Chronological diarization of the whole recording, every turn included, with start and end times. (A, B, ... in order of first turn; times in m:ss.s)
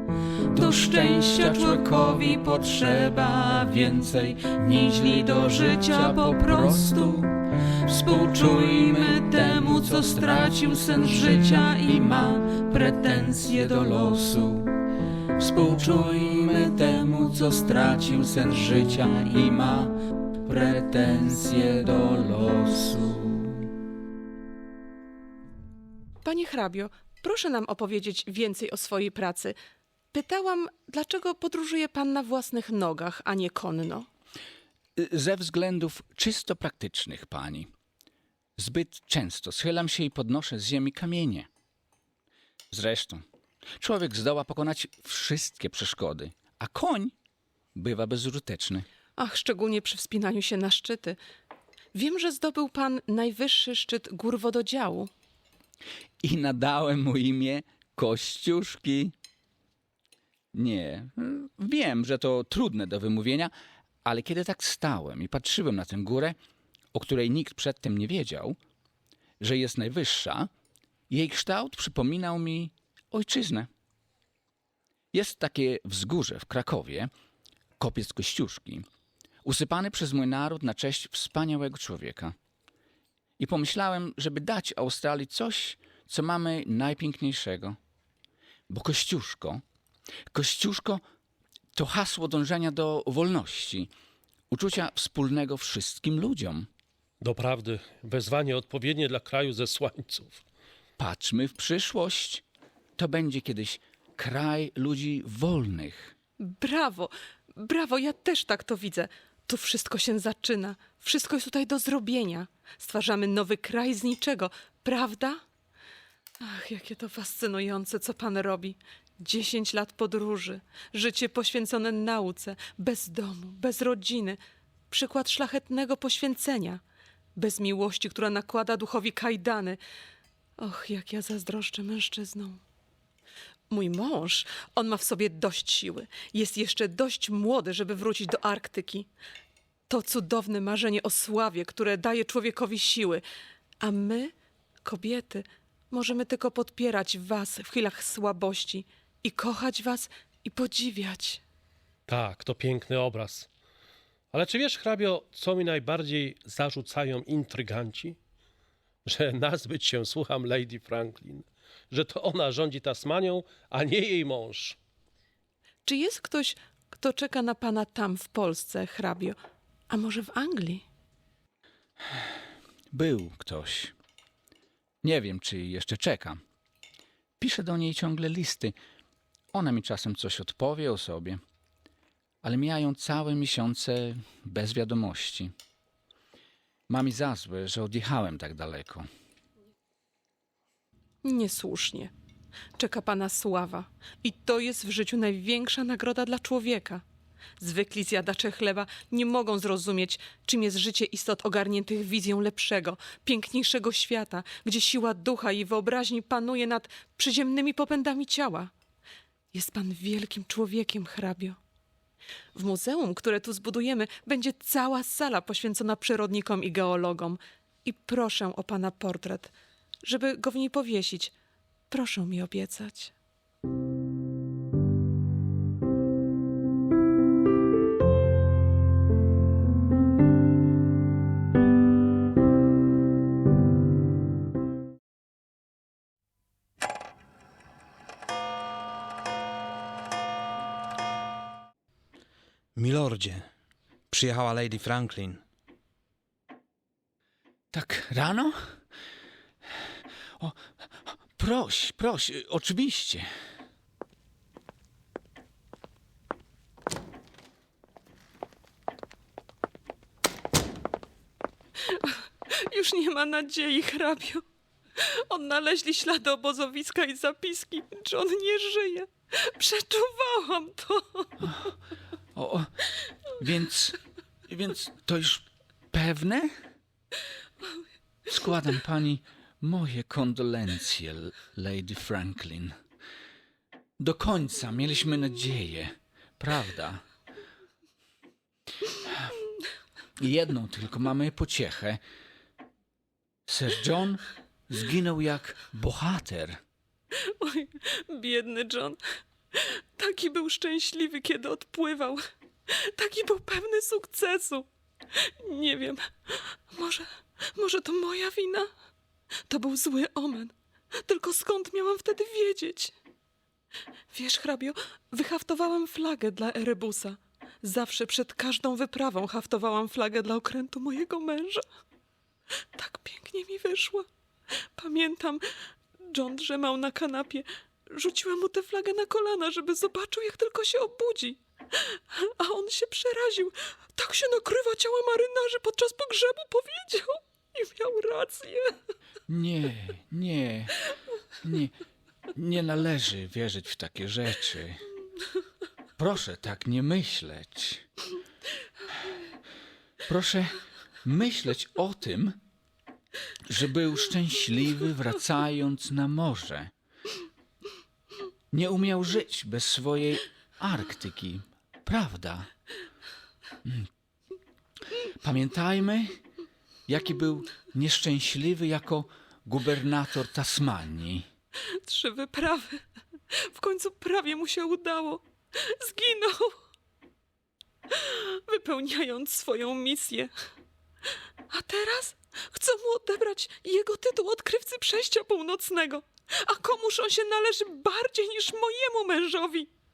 0:00.5-0:14.7 A
0:00.9-0:01.8 B
0:15.4-0:23.7 A
0:26.2-0:29.6 B
0:30.1-0:34.1 B
0:35.0-0:37.7 A
0:38.6-0:41.5 A
0:42.7-0:43.2 A
0:43.8-0:47.2 A
0:47.8-0:48.9 A
0:49.2-0:51.2 B
0:51.9-0:55.1 B
0:56.2-0:59.1 A
1:00.5-1:03.5 A
1:04.0-1:06.4 A
1:06.9-1:08.6 A
1:09.4-1:10.5 A
1:11.1-1:13.7 A
1:15.1-1:17.1 A
1:17.8-1:18.9 A
1:19.4-1:22.3 A
1:23.4-1:27.8 A
1:28.7-1:29.6 A
1:30.3-1:31.0 A
1:31.8-1:33.9 A
1:34.5-1:36.7 A
1:37.2-1:40.4 C
1:41.0-1:42.4 A
1:43.0-1:46.1 A
1:46.4-1:55.4 B
1:56.4-2:04.4 B
2:04.9-2:06.8 B
2:07.4-2:09.8 B
2:10.6-2:12.6 B
2:13.7-2:19.1 B
2:19.9-2:23.2 B
2:23.8-2:24.3 B
2:24.8-2:31.4 B
2:32.1-2:33.5 C
2:34.3-2:38.2 C
2:39.1-2:44.8 C
2:45.8-2:49.4 B
2:49.9-2:50.8 B
2:52.9-2:53.9 A
2:55.0-2:56.4 A
2:57.4-2:58.8 A
2:59.5-3:01.4 A
3:02.4-3:05.5 A
3:06.9-3:09.1 A
3:11.2-3:12.1 B
3:12.8-3:17.0 B
3:17.6-3:28.7 B
3:29.5-3:31.6 B
3:32.6-3:41.3 B
3:41.9-3:43.1 B
4:02.8-4:03.5 D
4:04.1-4:05.4 D
4:07.7-4:08.6 A
4:11.4-4:13.3 A
4:21.9-4:24.4 B
4:25.0-4:31.4 B
4:32.4-4:32.7 A
4:33.3-4:36.5 A
4:38.3-4:42.7 A
4:44.0-4:47.0 A
4:50.2-4:52.0 A
4:53.5-4:56.6 A
4:57.2-4:59.0 B
4:59.5-5:08.7 B
5:09.5-5:10.5 B
5:11.0-5:12.9 B
5:14.1-5:21.6 B
5:22.8-5:24.0 B
5:24.8-5:25.4 B
5:26.1-5:38.8 B
5:39.3-5:40.8 A
5:41.4-5:41.8 A
5:42.4-5:44.9 A
5:46.0-5:47.8 A
5:50.0-5:52.4 A
5:53.5-5:56.7 A
5:58.5-6:02.5 A
6:05.2-6:06.2 A
6:06.9-6:11.3 A
6:11.7-6:16.6 B
6:17.9-6:20.3 B
6:21.5-6:29.7 B